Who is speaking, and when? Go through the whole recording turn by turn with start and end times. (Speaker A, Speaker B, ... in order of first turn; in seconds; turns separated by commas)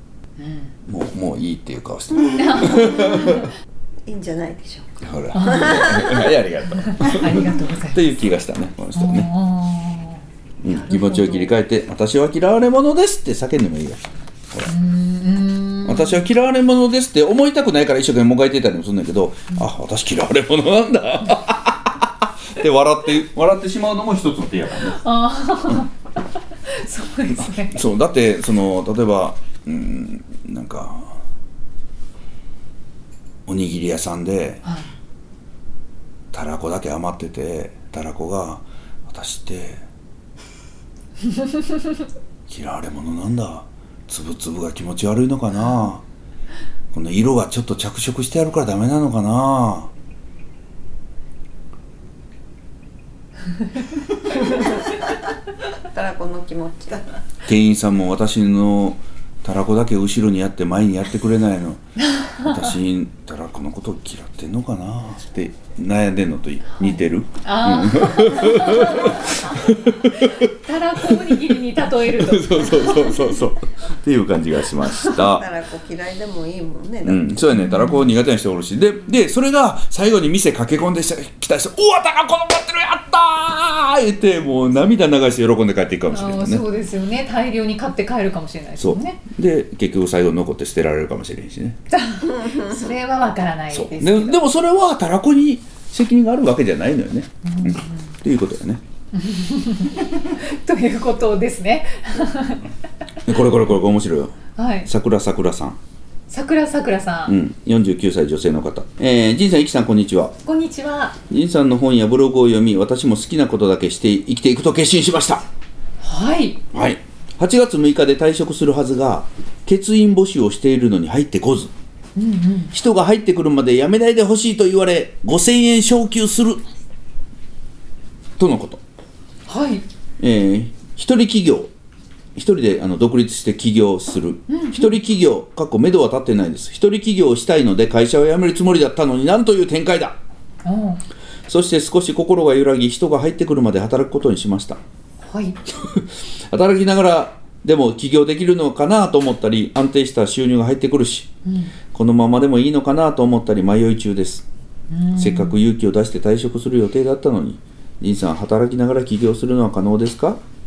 Speaker A: 0.4-0.7, Speaker B: 0.8-3.5, Speaker C: 2.3-3.5, Speaker A: 2.3-3.5, Speaker C: 4.0-6.3, Speaker B: 5.0-9.3, Speaker A: 5.3-6.1, Speaker A: 6.7-8.0, Speaker A: 8.9-11.5, Speaker B: 10.6-14.7, Speaker A: 14.7-16.2, Speaker B: 15.8-25.0, Speaker A: 24.9-25.9, Speaker A: 26.6-27.8, Speaker B: 27.3-31.2, Speaker B: 33.5-34.6, Speaker B: 36.3-39.8, Speaker B: 42.5-46.0, Speaker B: 46.9-49.9, Speaker C: 55.8-57.0, Speaker B: 57.5-61.8, Speaker A: 62.0-62.5, Speaker B: 62.4-70.5, Speaker A: 66.8-73.4, Speaker B: 71.0-71.6, Speaker B: 72.1-75.5, Speaker C: 75.1-77.4, Speaker B: 77.0-86.6, Speaker A: 77.5-78.1, Speaker A: 86.1-89.2, Speaker B: 88.8-91.8, Speaker A: 91.9-94.4, Speaker C: 92.3-92.7, Speaker B: 93.7-98.8, Speaker A: 97.4-98.1, Speaker A: 99.1-102.7, Speaker B: 103.2-105.8, Speaker A: 104.5-104.9, Speaker A: 106.3-107.3, Speaker B: 107.3-110.3, Speaker A: 110.4-111.2, Speaker B: 111.3-115.4, Speaker A: 116.0-116.6, Speaker B: 116.7-121.7, Speaker A: 122.2-122.7, Speaker B: 122.7-126.6, Speaker B: 128.4-128.8, Speaker A: 129.5-129.8, Speaker B: 130.2-131.7, Speaker B: 132.3-140.2, Speaker A: 134.5-134.9, Speaker A: 140.6-141.0, Speaker B: 141.5-144.8, Speaker A: 145.2-145.6, Speaker B: 145.7-151.3, Speaker A: 151.4-151.7, Speaker B: 151.9-154.4, Speaker A: 154.9-155.6, Speaker B: 155.2-160.4